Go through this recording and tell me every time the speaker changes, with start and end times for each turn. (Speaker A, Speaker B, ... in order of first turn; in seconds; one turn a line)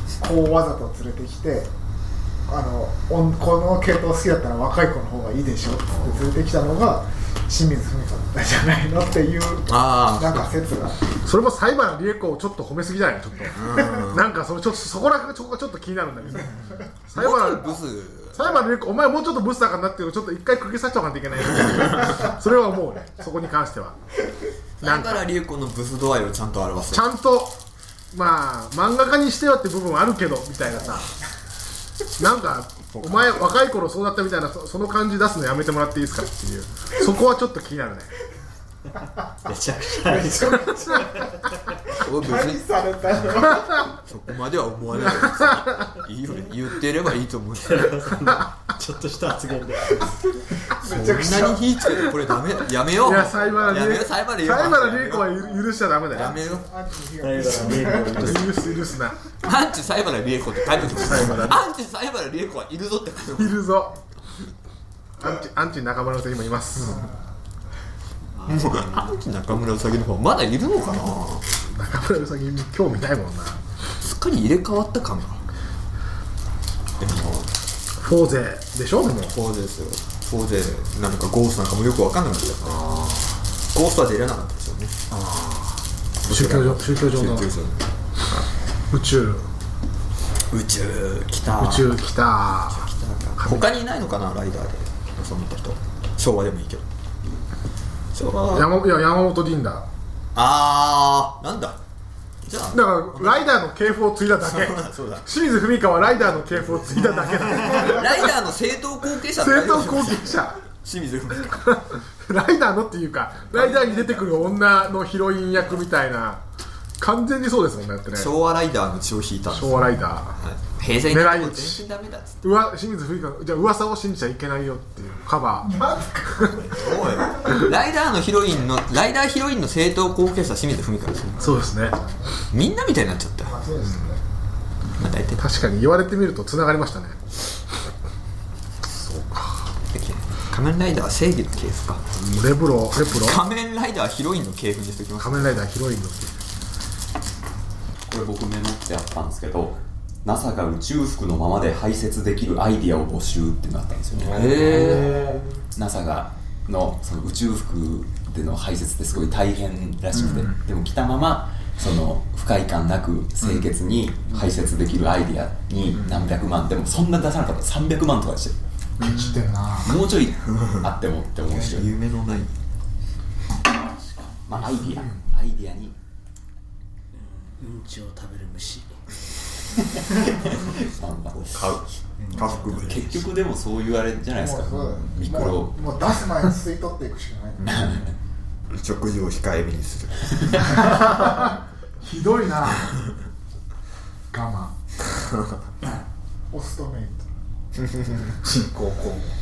Speaker A: 0.2-1.7
Speaker A: 2.5-11.1
Speaker B: 9.7-10.5
Speaker C: 11.2-17.8
Speaker B: 13.5-14.2
Speaker B: 17.1-18.5
Speaker C: 18.3-24.0
Speaker C: 24.8-25.2
Speaker B: 24.8-27.0
Speaker C: 26.9-27.6
Speaker C: 28.1-31.1
Speaker C: 32.2-38.1
Speaker D: 39.5-40.6
Speaker A: 40.0-40.9
Speaker B: 42.0-42.7
Speaker A: 42.0-43.8
Speaker B: 44.0-48.1
Speaker C: 44.9-45.8
Speaker D: 47.8-50.0
Speaker A: 50.0-51.7
Speaker B: 50.8-55.5
Speaker C: 53.0-56.4
Speaker A: 56.1-58.4
Speaker B: 56.1-56.7
Speaker D: 57.2-58.6
Speaker C: 58.1-59.2
Speaker B: 59.4-63.6
Speaker C: 60.9-61.6
Speaker C: 63.4-64.0
Speaker C: 65.2-67.1
Speaker B: 68.5-71.5
Speaker D: 68.6-69.1
Speaker C: 71.7-73.6
Speaker B: 74.0-75.4
Speaker B: 77.0-77.5
Speaker C: 78.0-79.4
Speaker B: 79.2-82.8
Speaker C: 82.7-83.3
Speaker B: 83.7-85.0
Speaker C: 85.1-85.8
Speaker B: 86.2-87.8
Speaker C: 86.3-87.5
Speaker C: 88.9-89.5
Speaker B: 90.5-91.9
Speaker C: 91.5-93.7
Speaker B: 92.6-96.8
Speaker B: 98.1-98.7
Speaker C: 98.5-99.9
Speaker B: 100.3-101.8
Speaker B: 102.5-103.5
Speaker C: 102.7-108.3
Speaker B: 104.4-105.3
Speaker B: 107.6-111.8
Speaker C: 109.3-110.6
Speaker C: 111.5-116.4
Speaker B: 113.5-114.2
Speaker C: 117.0-118.3
Speaker B: 118.1-122.4
Speaker C: 119.5-120.4
Speaker C: 121.1-121.8
Speaker C: 122.4-125.8
Speaker A: 125.6-127.2
Speaker B: 126.6-131.6
Speaker C: 131.4-132.0
Speaker A: 131.5-132.3
Speaker B: 132.5-133.6
Speaker A: 133.4-134.2
Speaker C: 133.8-134.2
Speaker B: 135.0-135.4
Speaker C: 135.4-137.2
Speaker C: 138.9-139.6
Speaker B: 139.9-142.1
Speaker C: 142.2-143.4
Speaker B: 143.1-145.7
Speaker C: 145.2-146.4
Speaker E: 148.1-155.1
Speaker B: 154.2-155.4
Speaker E: 155.8-168.6
Speaker C: 169.0-170.0
Speaker A: 169.1-169.9
Speaker E: 169.8-171.9
Speaker B: 171.5-172.5
Speaker E: 174.5-176.0
Speaker D: 177.2-178.9
Speaker E: 179.8-181.9
Speaker B: 181.4-183.1
Speaker D: 182.2-182.8
Speaker E: 182.7-185.9
Speaker A: 184.4-188.0
Speaker E: 187.6-188.1
Speaker B: 188.7-190.9
Speaker C: 190.9-192.9
Speaker C: 194.3-194.7
Speaker A: 196.5-197.3
Speaker A: 198.4-199.2